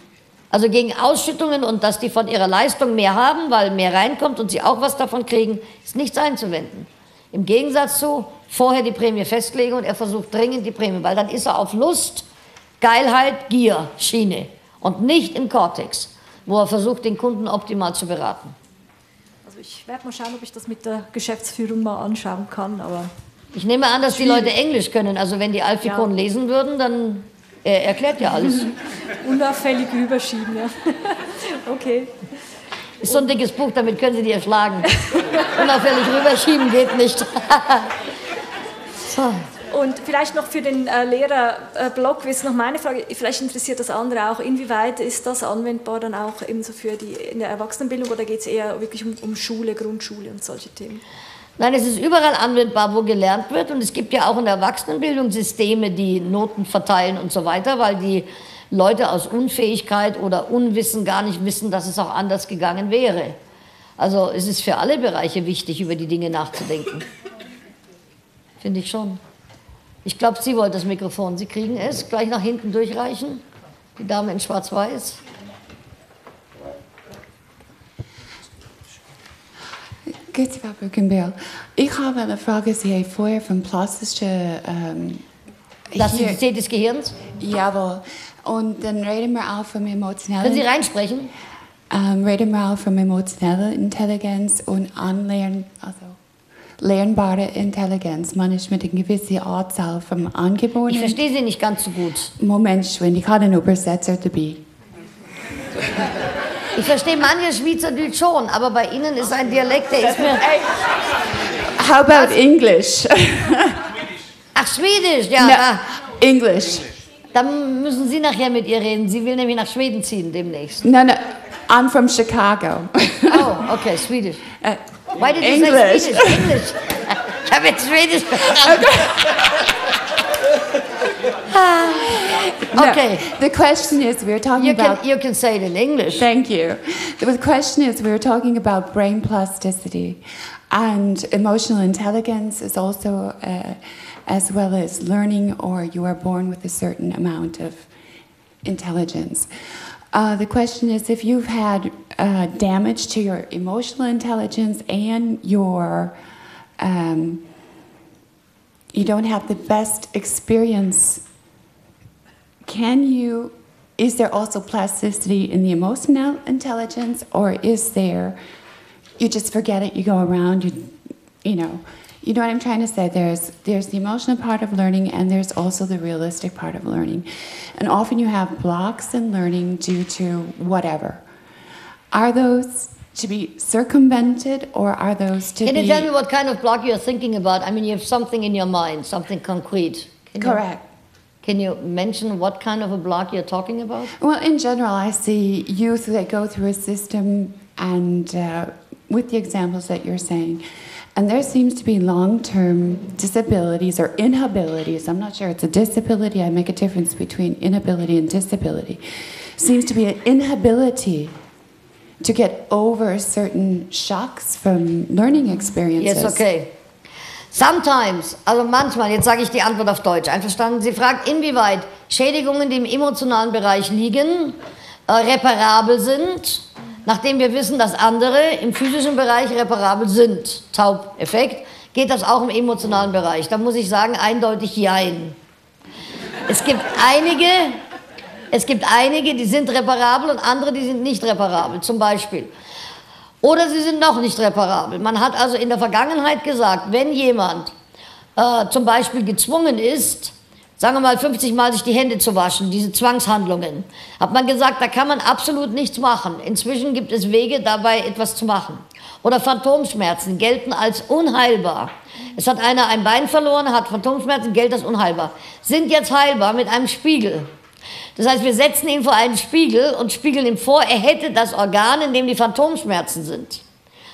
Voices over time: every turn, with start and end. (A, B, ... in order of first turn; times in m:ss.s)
0:00.5-0:12.3 A
0:12.8-0:18.5 A
0:19.4-0:23.1 B
0:23.5-0:28.7 A
0:24.2-0:24.5 B
0:25.8-0:26.1 B
0:29.2-0:32.2 B
0:33.0-0:34.9 A
0:35.5-0:37.9 A
0:39.0-0:39.4 A
0:39.7-0:51.0 B
0:51.6-1:03.4 A
1:04.0-1:07.1 A
1:08.6-1:09.2 A
1:10.0-1:13.4 A
1:14.0-1:15.2 A
1:20.3-1:25.2 C
1:25.9-1:26.4 C
1:26.0-1:27.2 A
1:27.4-1:30.7 C
1:30.4-1:31.3 A
1:31.9-1:36.2 C
1:36.8-1:41.1 C
1:40.9-1:42.3 A
1:42.4-1:44.6 C
1:46.7-1:50.4 A
1:51.8-1:53.8 C
1:54.6-1:55.8 A
1:55.4-1:56.9 C
1:57.3-2:00.8 A
2:00.8-2:03.3 C
2:03.3-2:04.5 A
2:05.2-2:08.9 A
2:05.4-2:06.6 C
2:08.6-2:09.0 C
2:11.5-2:13.3 A
2:12.7-2:15.0 C
2:14.6-2:16.3 A
2:16.2-2:27.9 C
2:28.6-2:29.5 C
2:30.1-2:36.2 C
2:36.8-2:37.4 C
2:38.9-2:41.2 C
2:42.6-2:48.4 C
2:49.2-3:01.2 C
3:02.1-3:06.1 C
3:05.6-3:10.6 A
3:10.4-3:10.8 C
3:11.4-3:14.1 A
3:14.2-3:20.6 C
3:21.1-3:29.0 C
3:29.6-3:31.3 C
3:32.2-3:36.4 C
3:36.0-3:36.7 A
3:37.5-3:55.4 A
3:56.5-3:57.8 A
3:58.5-4:02.5 A
4:03.4-4:07.7 A
4:08.4-4:27.5 A
4:28.2-4:33.6 A